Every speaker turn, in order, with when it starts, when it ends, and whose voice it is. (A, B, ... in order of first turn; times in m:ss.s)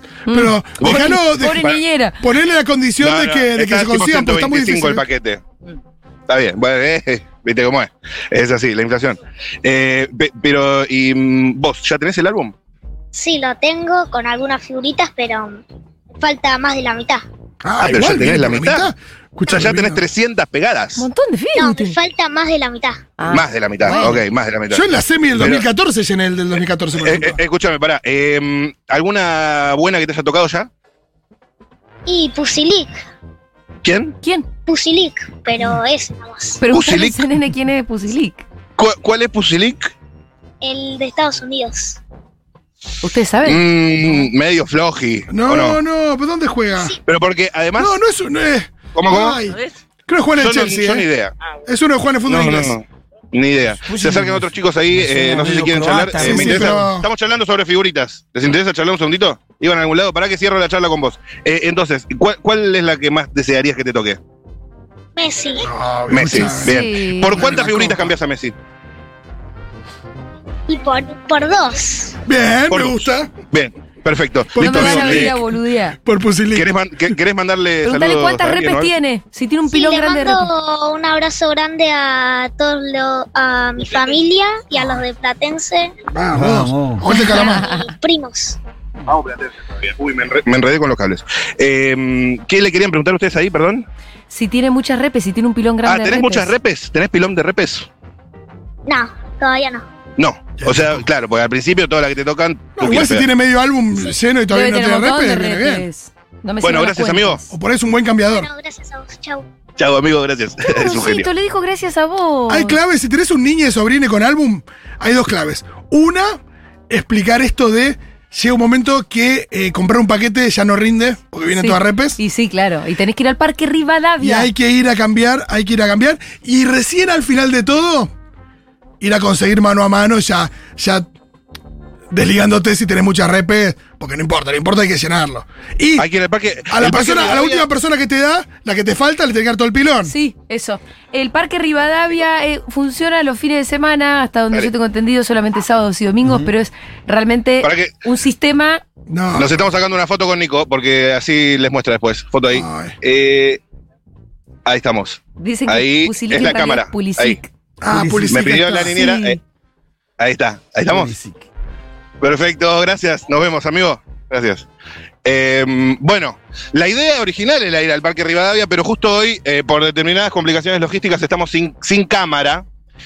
0:00.3-0:02.2 A
0:00.3-0:01.7 B
0:00.8-0:01.8 C
0:02.2-0:05.0 B
0:03.0-0:05.4 C
0:06.3-0:12.5 C
0:13.1-0:15.6 D
0:16.2-0:17.2 D
0:17.6-0:20.0 B
0:17.8-0:18.9 C
0:19.5-0:21.1 C
0:21.0-0:22.0 A
0:21.6-0:23.1 D
0:23.2-0:24.2 A
0:23.3-0:24.8 C
0:24.7-0:27.4 B
0:25.4-0:25.7 C
0:27.0-0:30.7 C
0:32.1-0:33.0 D
0:33.8-0:34.2 C
0:34.2-0:34.5 A
0:34.7-0:36.6 D
0:36.6-0:38.4 A
0:36.7-0:37.3 C
0:38.8-0:39.9 C
0:40.6-0:42.0 D
0:43.0-0:43.6 A
0:43.4-0:45.8 C
0:45.3-0:47.0 B
0:47.0-0:48.0 C
0:47.8-0:49.6 B
0:48.9-0:49.4 C
0:50.1-0:51.1 B
0:50.4-0:51.3 C
0:51.7-0:52.8 B
0:52.3-1:04.2 C
0:53.8-0:56.8 E
0:56.2-0:57.1 B
1:05.2-1:05.7 D
1:05.7-1:08.1 B
1:06.1-1:08.6 C
1:06.6-1:07.6 A
1:10.7-1:12.2 D
1:12.3-1:13.3 B
1:12.7-1:15.4 C
1:14.5-1:15.4 B
1:14.6-1:16.0 A
1:16.0-1:16.7 B
1:16.5-1:18.9 C
1:17.8-1:20.5 A
1:19.7-1:25.9 D
1:26.1-1:27.7 B
1:26.3-1:27.0 E
1:27.1-1:27.9 A
1:27.3-1:28.6 D
1:29.1-1:33.9 C
1:34.3-1:36.5 A
1:35.8-1:37.9 C
1:38.9-1:39.9 D
1:40.2-1:43.3 C
1:40.6-1:41.0 B
1:42.8-1:45.9 B
1:44.5-1:47.5 A
1:46.6-1:47.4 C
1:47.5-1:48.5 B
1:48.3-1:49.5 D
1:49.8-1:51.3 C
1:50.6-1:52.8 A
1:52.5-1:56.4 B
1:56.9-2:02.2 B
2:01.6-2:04.5 A
2:04.2-2:08.1 B
2:09.0-2:11.1 B
2:12.1-2:16.1 B
2:16.0-2:17.7 C
2:16.7-2:20.1 B
2:20.0-2:28.8 A
2:26.2-2:26.5 E
2:27.6-2:27.9 C
2:29.1-2:29.6 B
2:29.4-2:33.6 C
2:32.5-2:33.0 B
2:34.6-2:37.4 C
2:35.4-2:37.5 A
2:37.8-2:39.0 B
2:37.9-2:38.7 E
2:38.3-2:39.4 C
2:38.9-2:39.4 A
2:40.2-2:41.1 C
2:40.9-2:41.5 E
2:42.2-2:44.7 C
2:45.2-2:52.6 C